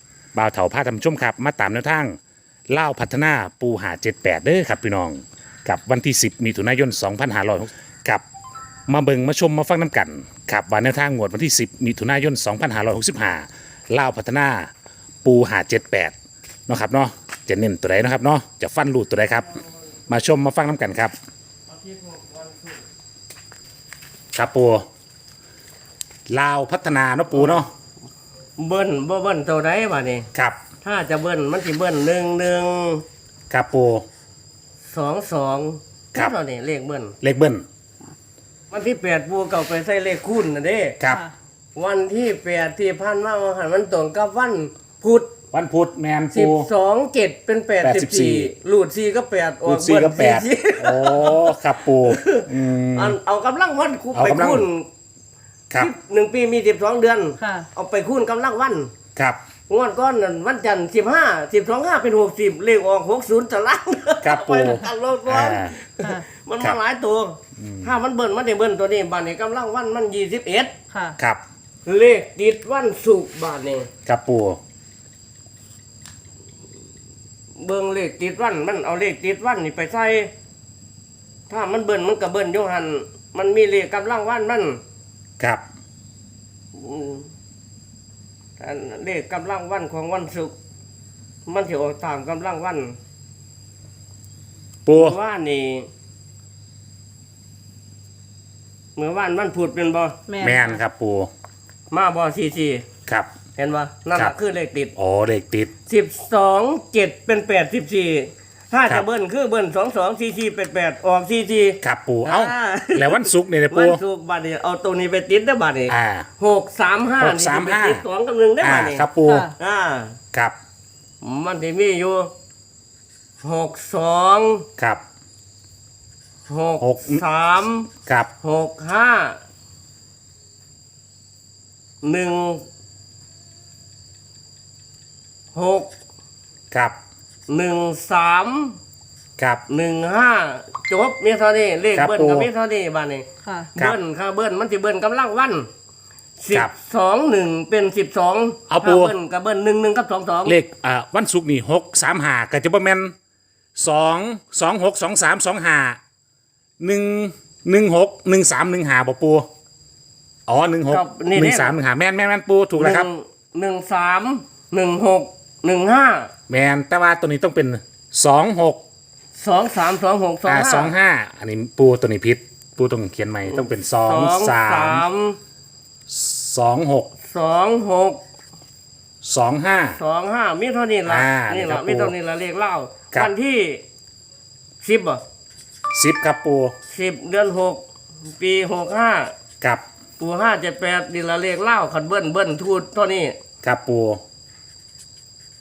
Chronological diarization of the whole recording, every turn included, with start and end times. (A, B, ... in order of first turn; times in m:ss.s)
0:00.3-0:02.2 A
0:02.7-0:08.2 A
0:08.9-0:14.7 A
0:15.2-0:16.1 A
0:16.7-0:19.5 A
0:20.1-0:21.1 A
0:21.7-0:22.8 B
0:24.3-0:24.9 A
0:26.3-0:27.7 A
0:27.3-0:27.6 B
0:28.6-0:30.3 B
0:30.3-0:30.6 A
0:30.8-0:33.0 B
0:33.5-0:34.0 A
0:34.9-0:37.2 B
0:37.2-0:37.6 A
0:38.7-0:41.0 B
0:41.0-0:41.3 A
0:41.1-0:41.3 C
0:41.8-0:45.3 B
0:45.5-0:46.7 A
0:46.3-0:54.9 B
0:47.8-0:48.5 A
0:49.6-0:53.2 A
0:54.1-0:54.7 A
0:55.8-0:58.9 B
0:57.4-0:57.7 C
0:59.7-1:10.8 B
1:04.2-1:05.8 A
1:06.0-1:06.2 C
1:07.6-1:07.9 A
1:10.9-1:11.2 C
1:11.2-1:11.4 A
1:11.9-1:13.9 B
1:14.1-1:14.6 A
1:17.6-1:20.3 B
1:21.5-1:24.8 B
1:26.7-1:27.3 B
1:28.6-1:30.5 B
1:31.5-1:33.0 B
1:34.9-1:35.2 A
1:34.9-1:35.9 B
1:39.0-1:40.2 B
1:40.3-1:40.8 C
1:40.4-1:41.3 A
1:41.9-1:42.8 B
1:43.6-1:44.9 B
1:45.0-1:45.7 A
1:45.9-2:00.2 B
1:51.8-1:54.0 A
1:55.9-1:56.3 A
1:57.2-1:58.0 A
1:58.6-1:59.5 A
1:59.2-1:59.5 C
2:01.2-2:02.3 B
2:03.4-2:04.7 B
2:06.5-2:07.9 B
2:06.8-2:07.2 A
2:08.4-2:09.4 B
2:12.0-2:12.6 B
2:15.5-2:15.9 B
2:16.7-2:17.0 A
2:17.5-2:18.8 B
2:19.4-2:19.6 A
2:19.7-2:25.7 B
2:22.0-2:22.5 A
2:23.4-2:23.7 C
2:26.4-2:30.6 B
2:28.7-2:29.1 A
2:30.4-2:33.1 A
2:33.8-2:36.0 A
2:36.8-2:39.5 A
2:40.5-2:43.1 A
2:40.9-2:41.7 B
2:42.8-2:46.3 B
2:46.5-2:48.8 A
2:49.4-2:50.9 B
2:50.4-2:55.0 A
2:53.5-2:55.4 B
2:56.1-2:57.1 A
2:57.3-2:58.2 B
2:59.2-3:00.0 A
3:00.0-3:03.8 B
3:01.1-3:02.1 A
3:04.8-3:05.2 B
3:05.9-3:06.7 A
3:06.9-3:07.8 B
3:08.4-3:09.3 B
3:10.2-3:13.4 B
3:13.6-3:14.2 A